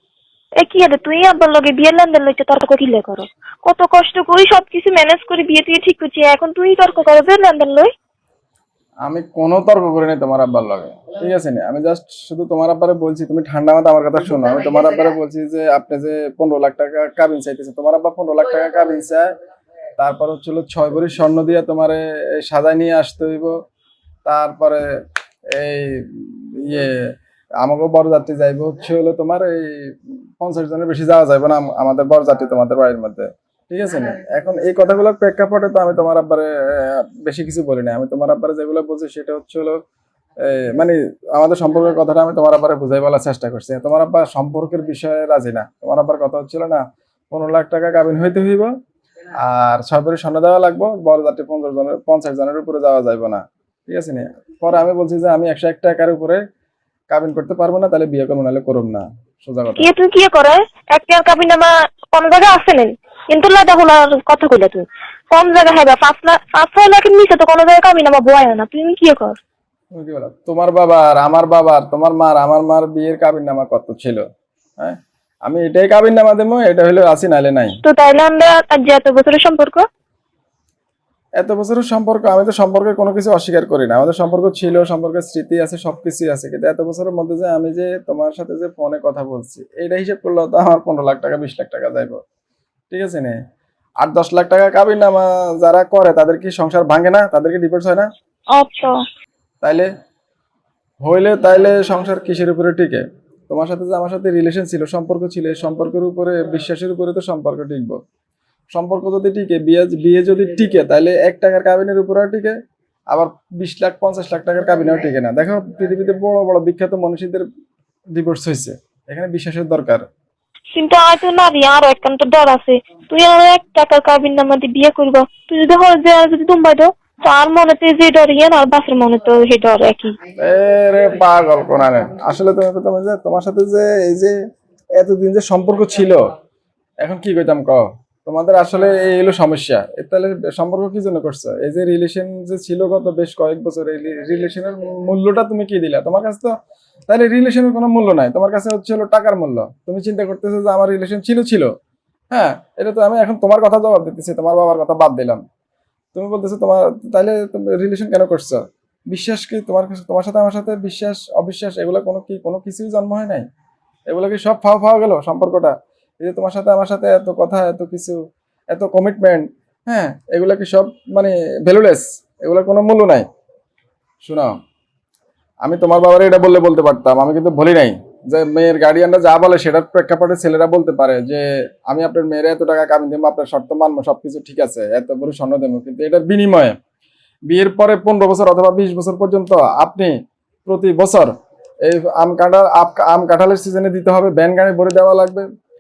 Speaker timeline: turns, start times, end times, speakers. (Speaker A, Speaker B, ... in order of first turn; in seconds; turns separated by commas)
Speaker A: 0.6-7.9, Speaker B: 9.0-19.3, Speaker B: 20.0-23.5, Speaker B: 24.2-24.8, Speaker B: 25.5-26.9, Speaker B: 27.6-39.8, Speaker B: 40.4-48.7, Speaker B: 49.4-56.4, Speaker B: 57.1-59.9, Speaker A: 59.8-69.4, Speaker B: 69.9-74.2, Speaker B: 74.8-77.8, Speaker A: 77.8-79.8, Speaker B: 81.4-92.2, Speaker B: 92.9-93.4, Speaker B: 94.0-98.1, Speaker A: 98.5-99.0, Speaker B: 99.6-99.9, Speaker B: 101.0-108.0, Speaker B: 108.7-112.5, Speaker B: 113.1-117.4, Speaker B: 118.1-120.0, Speaker A: 120.7-130.1, Speaker B: 130.4-134.3, Speaker B: 135.0-136.2, Speaker B: 137.0-146.5, Speaker B: 147.1-151.7, Speaker B: 152.3-155.4, Speaker B: 156.2-163.5, Speaker B: 164.1-168.2, Speaker B: 168.7-173.3, Speaker B: 174.2-174.5, Speaker B: 175.6-186.8, Speaker B: 187.5-190.1, Speaker B: 190.7-191.3, Speaker B: 191.8-195.4